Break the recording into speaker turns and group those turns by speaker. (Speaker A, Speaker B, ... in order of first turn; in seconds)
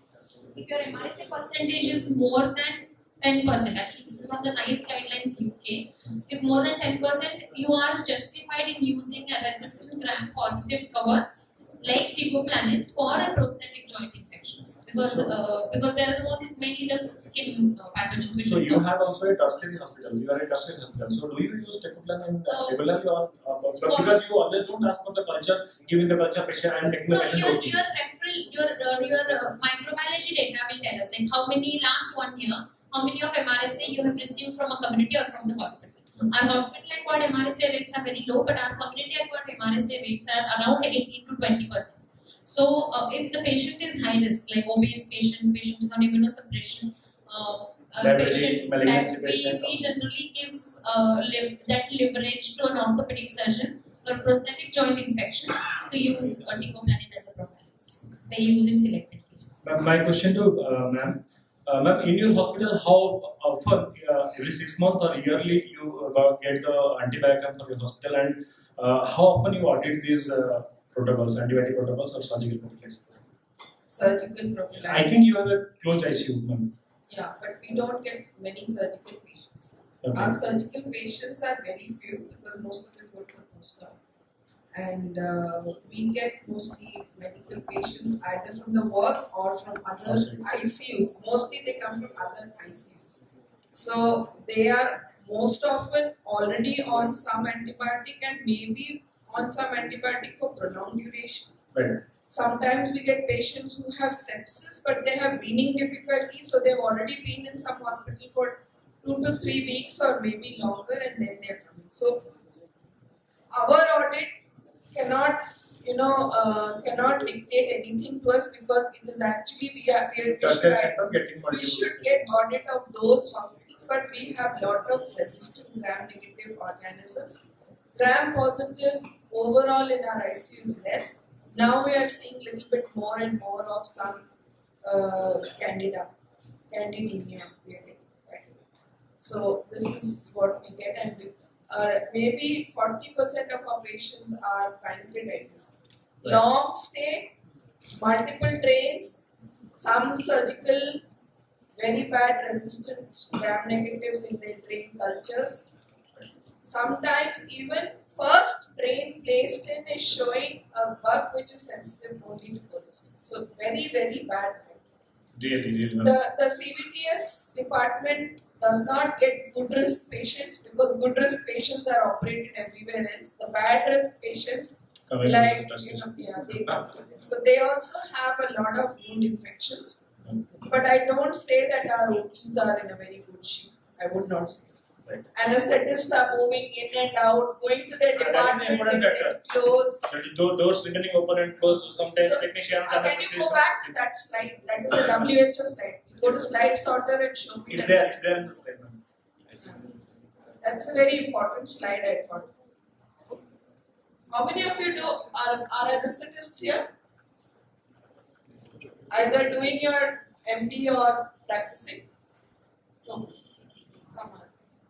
Speaker A: 0.5-19.1, 22.5-22.8, 23.8-24.2, 27.1-59.6
Speaker B: 15.0-15.3, 18.4-27.8, 48.0-49.8, 59.6-73.2, 74.8-76.7, 80.0-80.4, 90.0-90.4, 101.7-102.0, 120.4-122.4, 165.4-166.2, 175.1-176.8, 180.2-180.6, 188.1-189.4, 190.1-193.8, 197.7-199.0
Speaker C: 73.9-75.2, 77.1-84.0, 84.7-101.5, 102.3-112.3, 113.5-114.3, 114.9-127.4, 127.9-134.2, 134.8-136.1, 136.7-138.5, 139.2-147.3, 147.9-151.0, 151.8-155.7, 156.6-164.8, 166.0-180.1, 180.7-190.1, 192.2-198.2, 199.6-199.9, 200.6-202.5, 204.3-206.9, 209.1-212.1, 213.0-213.3, 214.1-214.5